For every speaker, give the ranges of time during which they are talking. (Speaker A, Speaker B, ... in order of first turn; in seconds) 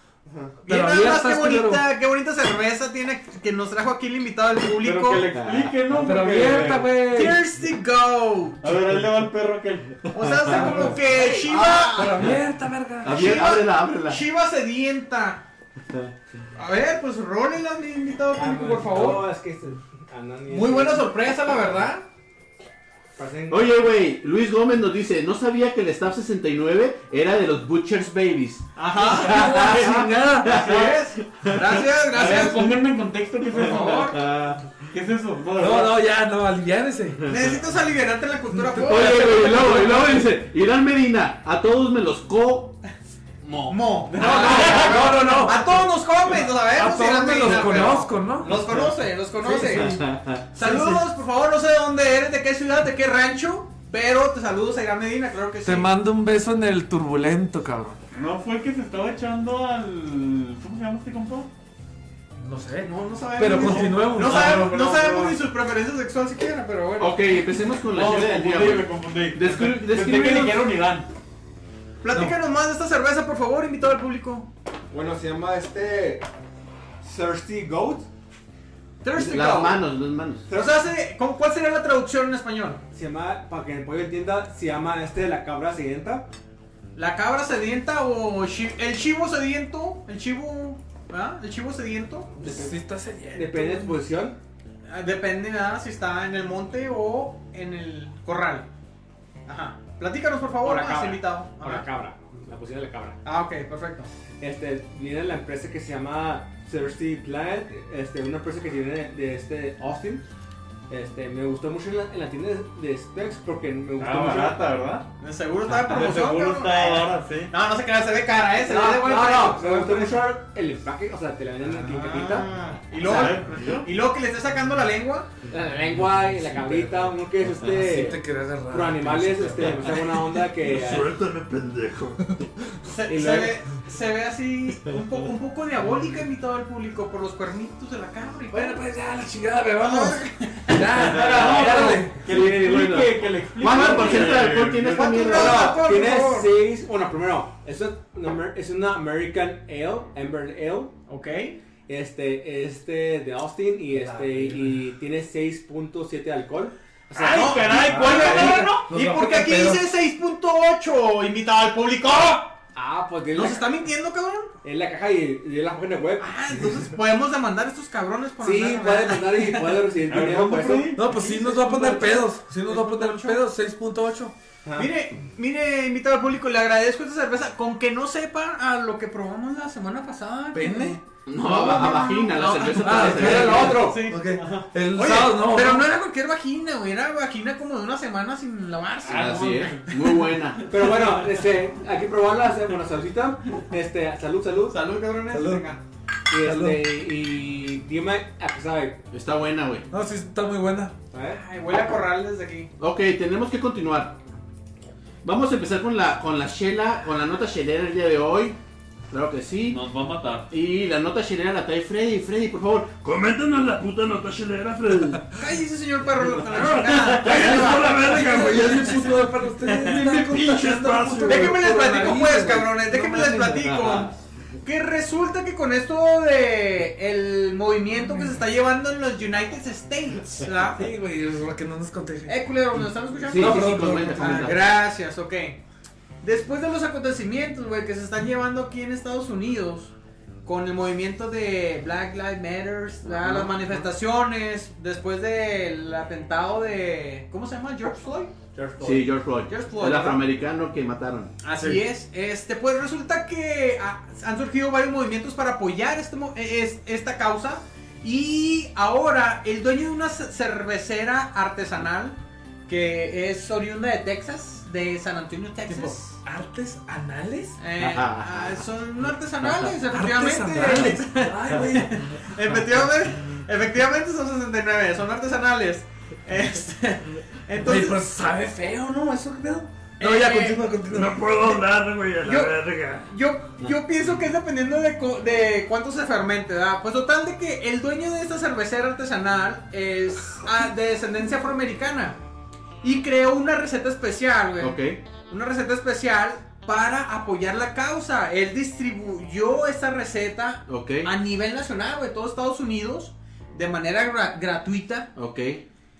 Speaker A: 0.2-0.6, 10.5-11.0, 18.3-21.1, 23.2-23.6, 74.9-76.2, 77.0-78.1, 82.9-86.2, 92.4-92.8, 93.3-94.4, 100.6-103.2, 104.4-110.2, 110.9-114.7, 118.6-122.5, 125.5-131.1, 133.1-133.6, 141.2-141.8, 142.3-142.9, 145.2-150.9, 151.9-158.6, 162.7-163.7, 164.6-166.6, 168.4-171.3, 174.6-174.9, 190.7-194.8, 196.3-199.0, 201.1-201.4, 248.5-248.9
Speaker B: 0.6-5.2, 7.1-8.7, 10.1-12.3, 13.0-15.4, 16.5-19.2, 20.5-22.1, 28.8-29.9, 30.4-32.8, 33.5-34.2, 37.2-40.1, 43.7-50.0, 50.5-55.9, 62.8-67.1, 72.0-74.5, 79.0-79.8, 80.5-82.8, 87.0-92.3, 94.9-98.7, 99.5-101.9, 103.2-104.1, 115.2-120.3, 121.7-125.3, 132.8-138.8, 139.8-141.5, 144.9-146.5, 151.1-151.6, 157.2-162.6, 163.3-164.5, 166.2-169.9, 171.2-173.4, 174.8-190.8, 194.7-195.8, 201.3-202.7, 215.3-218.5, 221.2-230.8, 232.2-235.6, 236.2-239.9, 240.4-250.2, 251.4-262.2, 262.7-266.2, 267.6-278.0, 280.0-280.7, 282.2-292.2, 292.8-305.1
Speaker C: 0.7-1.8, 5.9-7.4, 10.5-10.9, 11.9-13.2, 18.9-19.2, 29.1-30.6, 35.6-37.4, 38.5-40.2, 44.4-45.7, 46.4-48.7, 49.4-50.9, 55.6-58.0, 62.4-64.7, 92.4-94.0, 127.6-130.0, 138.5-142.3, 154.0-154.6, 158.0-159.8, 170.9-174.3, 180.5-181.0, 181.6-182.0, 182.7-185.9, 195.3-195.7, 196.4-196.8, 199.9-200.9, 217.5-223.8, 230.7-232.3, 233.3-234.6, 265.7-267.6, 269.9-272.3, 277.6-281.6
Speaker D: 4.8-6.9, 8.6-10.3, 30.5-30.9, 32.1-34.2, 34.9-36.0, 44.1-45.4, 58.1-61.5, 64.0-65.3, 67.9-71.1, 114.0-115.0, 115.7-117.5, 122.9-123.9, 140.9-145.7, 157.1-158.8, 170.1-171.0, 189.0-189.9, 209.7-210.5
Speaker E: 5.3-5.8, 10.7-12.2, 13.0-14.2, 23.5-31.8, 33.6-34.6, 38.8-42.8, 43.4-44.0, 49.8-50.9, 67.0-70.6, 79.2-80.5, 141.4-145.8, 181.2-183.8, 189.0-190.6, 199.1-199.8, 202.8-204.2, 205.2-208.6, 209.1-209.8, 210.5-212.9, 223.4-224.1, 233.3-234.6, 243.0-243.7, 248.8-251.4, 267.8-268.6, 269.4-269.7, 294.6-295.0, 300.7-301.1, 305.1-305.6
Speaker F: 130.6-132.2, 213.0-215.2, 216.6-221.8, 280.8-283.1